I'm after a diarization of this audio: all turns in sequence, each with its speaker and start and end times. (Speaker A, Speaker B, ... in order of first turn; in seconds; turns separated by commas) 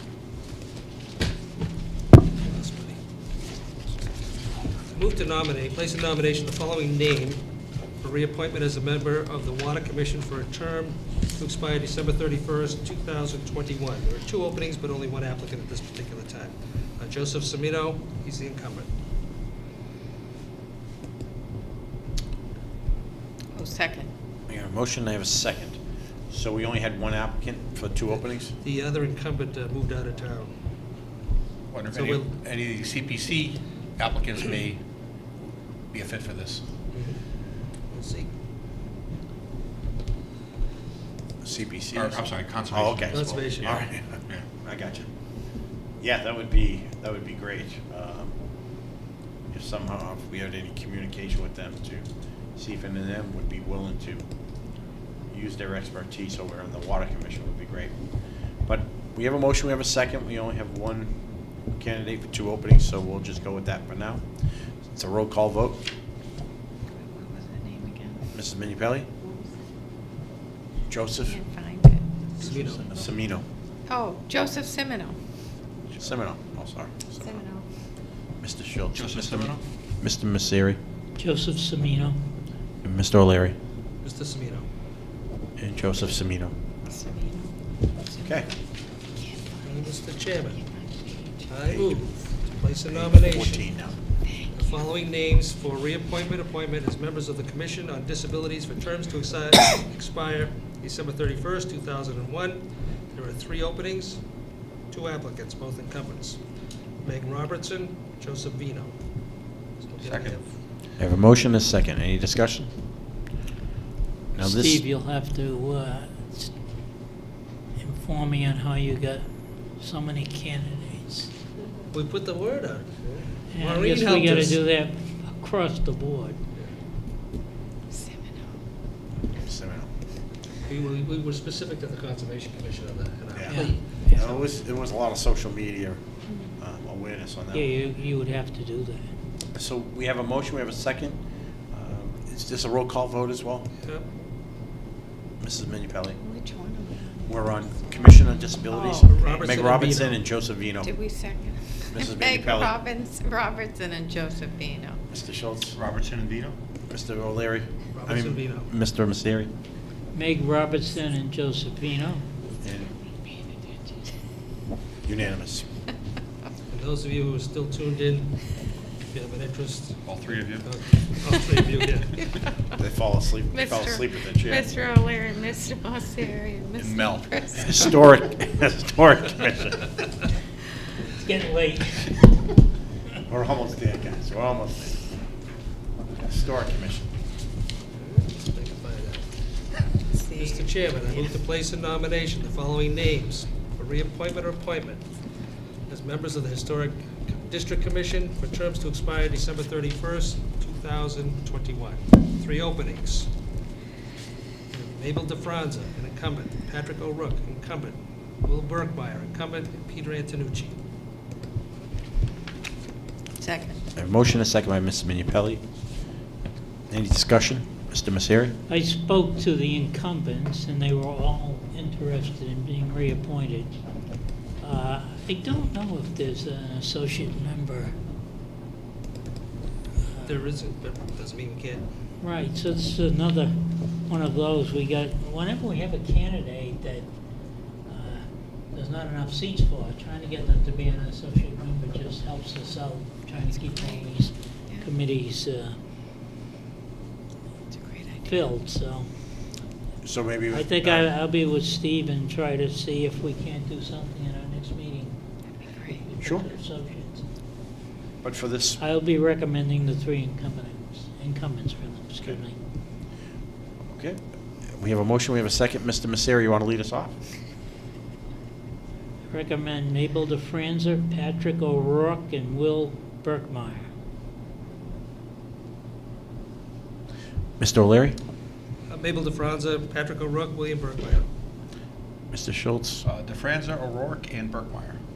Speaker A: 2.4-3.0, Speaker A: 4.9-18.9, Speaker B: 23.6-24.1, Speaker C: 24.5-28.5, Speaker A: 28.2-30.5, Speaker D: 31.7-34.8, Speaker A: 31.9-32.3, Speaker D: 35.9-36.6, Speaker A: 36.9-37.2, Speaker A: 37.9-38.3, Speaker C: 41.4-45.1, Speaker D: 41.9-44.5, Speaker A: 43.1-43.8, Speaker C: 46.0-48.4, Speaker C: 49.5-54.2, Speaker C: 55.3-64.3, Speaker C: 64.9-65.8, Speaker B: 66.9-68.3, Speaker C: 68.3-69.1, Speaker B: 69.2-69.5, Speaker C: 70.9-71.4, Speaker B: 71.3-72.1, Speaker A: 72.4-72.9, Speaker D: 72.4-73.1, Speaker C: 72.9-73.4, Speaker B: 73.9-75.2, Speaker C: 76.0-77.4, Speaker B: 77.2-77.6, Speaker C: 78.4-80.8, Speaker D: 78.9-79.6, Speaker E: 81.2-82.2, Speaker C: 82.8-83.6, Speaker A: 84.0-84.7, Speaker C: 85.6-86.5, Speaker B: 86.8-88.4, Speaker C: 88.2-88.5, Speaker B: 89.2-90.0, Speaker A: 89.6-90.6, Speaker B: 90.5-91.5, Speaker A: 91.5-93.7, Speaker C: 91.7-92.1, Speaker C: 92.9-94.0, Speaker B: 94.2-94.8, Speaker A: 94.5-110.6, Speaker D: 110.0-110.4, Speaker C: 111.0-112.7, Speaker C: 114.3-114.8, Speaker E: 114.4-116.6, Speaker E: 117.8-121.3, Speaker A: 121.9-124.6, Speaker E: 123.5-126.4, Speaker B: 127.9-128.5, Speaker C: 129.2-129.9, Speaker A: 130.7-134.2, Speaker C: 133.3-136.0, Speaker E: 133.5-134.4, Speaker C: 136.6-137.7, Speaker E: 137.5-139.1, Speaker C: 139.5-143.7, Speaker C: 145.4-146.2, Speaker B: 146.2-148.1, Speaker C: 147.2-151.0, Speaker B: 148.7-149.3, Speaker A: 149.1-150.2, Speaker B: 150.8-155.0, Speaker C: 151.9-152.7, Speaker C: 155.1-155.8, Speaker D: 155.7-156.6, Speaker C: 156.9-159.5, Speaker A: 157.9-158.7, Speaker E: 160.1-162.2, Speaker C: 162.6-162.9, Speaker C: 165.0-165.7, Speaker A: 166.7-172.2, Speaker D: 170.0-170.7, Speaker C: 172.8-174.7, Speaker B: 173.5-177.8, Speaker D: 176.8-177.9, Speaker C: 177.6-180.0, Speaker E: 181.1-182.5, Speaker C: 183.3-185.0, Speaker C: 186.2-187.1, Speaker A: 187.9-189.7, Speaker B: 189.9-190.8, Speaker A: 190.3-195.1, Speaker A: 195.9-203.3, Speaker A: 204.7-210.8, Speaker B: 213.4-213.8, Speaker C: 214.0-215.6, Speaker C: 216.9-218.6, Speaker E: 218.7-223.8, Speaker E: 224.6-227.9, Speaker E: 230.1-230.4, Speaker A: 230.2-231.9, Speaker E: 232.2-237.1, Speaker E: 237.8-245.8, Speaker B: 243.7-244.1, Speaker B: 247.7-248.3, Speaker E: 248.2-249.1, Speaker C: 250.0-251.1, Speaker E: 250.5-255.1, Speaker E: 255.9-257.2, Speaker C: 258.2-258.8, Speaker E: 258.8-262.6, Speaker C: 263.9-267.1, Speaker E: 269.3-273.9, Speaker C: 277.6-278.2, Speaker A: 278.9-281.3, Speaker C: 282.3-283.0, Speaker D: 283.0-285.0